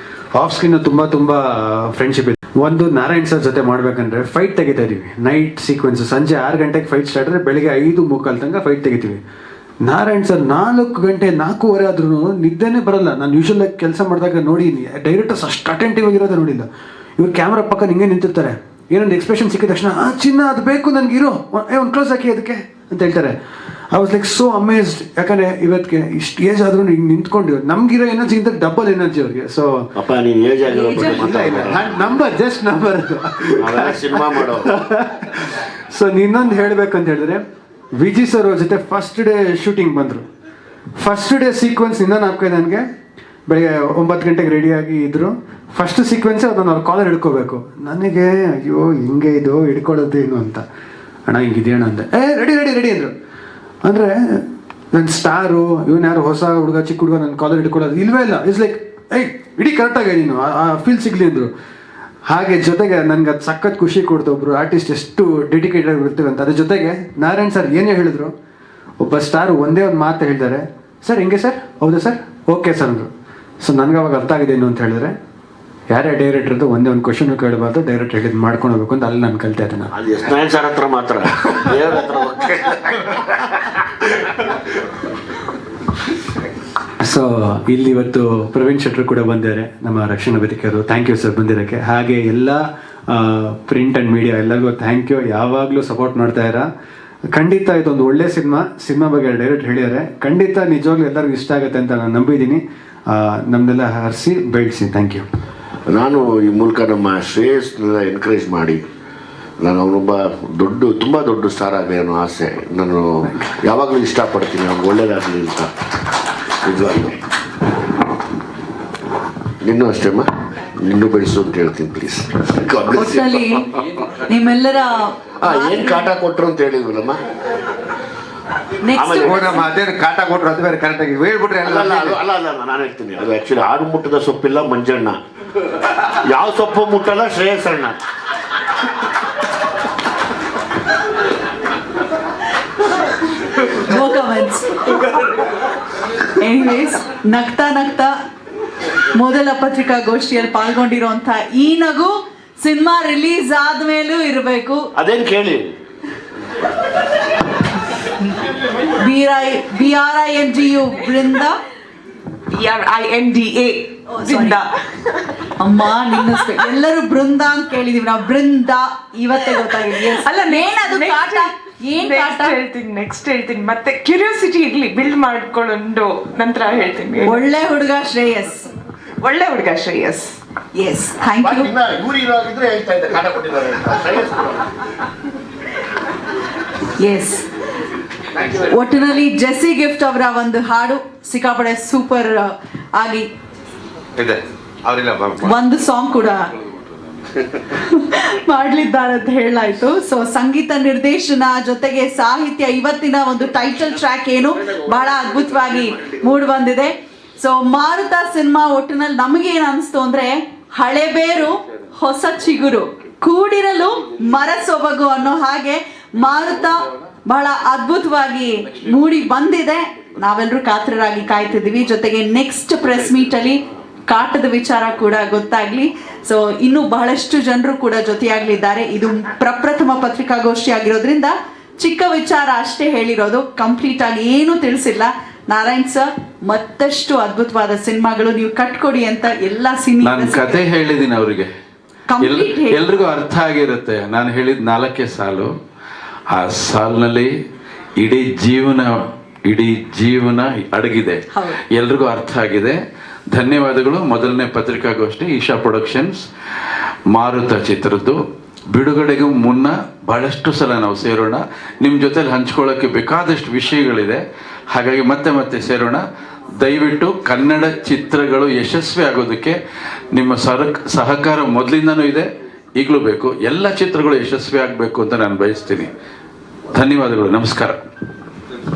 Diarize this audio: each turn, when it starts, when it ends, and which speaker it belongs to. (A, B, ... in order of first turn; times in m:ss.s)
0:00.4-0:09.2 A
0:09.8-0:16.6 A
0:17.2-0:23.3 A
0:23.9-0:29.9 A
0:30.0-0:32.2 B
0:30.7-0:37.4 A
0:33.6-0:34.7 B
0:38.0-0:40.2 A
0:41.0-0:42.8 A
0:43.5-0:50.6 A
0:51.3-0:53.1 A
0:53.8-1:01.5 A
1:02.3-1:08.3 A
1:09.0-1:13.1 A
1:13.6-1:15.2 A
1:15.9-1:19.9 A
1:19.9-1:24.2 B
1:27.0-1:36.7 A
1:37.3-1:42.6 A
1:43.1-1:45.2 A
1:45.9-1:48.8 B
1:49.6-1:55.7 B
1:56.6-1:57.2 B
1:59.6-2:03.6 B
2:02.9-2:03.6 C
2:04.3-2:06.1 C
2:05.4-2:07.2 B
2:08.8-2:09.7 C
2:09.0-2:09.5 B
2:09.2-2:12.2 D
2:11.6-2:15.2 B
2:16.2-2:18.0 B
2:23.6-2:24.8 C
2:26.4-2:28.1 C
2:29.1-2:34.9 C
2:35.0-2:35.7 B
2:39.0-2:41.6 C
2:42.5-2:44.7 E
2:44.2-2:44.6 C
2:45.6-2:52.6 C
2:50.1-2:57.4 E
2:57.2-2:58.7 C
2:59.2-3:00.4 E
3:00.8-3:01.7 C
3:01.4-3:04.6 B
3:07.0-3:07.5 C
3:08.5-3:13.3 C
3:14.2-3:15.5 D
3:15.4-3:16.5 C
3:17.6-4:00.6 C
4:00.0-4:01.5 F
4:02.1-4:02.8 C
4:02.2-4:05.5 F
4:06.3-4:07.3 F
4:08.0-4:08.9 F
4:09.5-4:12.8 F
4:13.3-4:16.2 F
4:17.1-4:18.2 F
4:18.7-4:24.2 F
4:24.7-4:26.0 F
4:26.6-4:29.6 F
4:30.1-4:35.9 F
4:36.7-4:37.8 F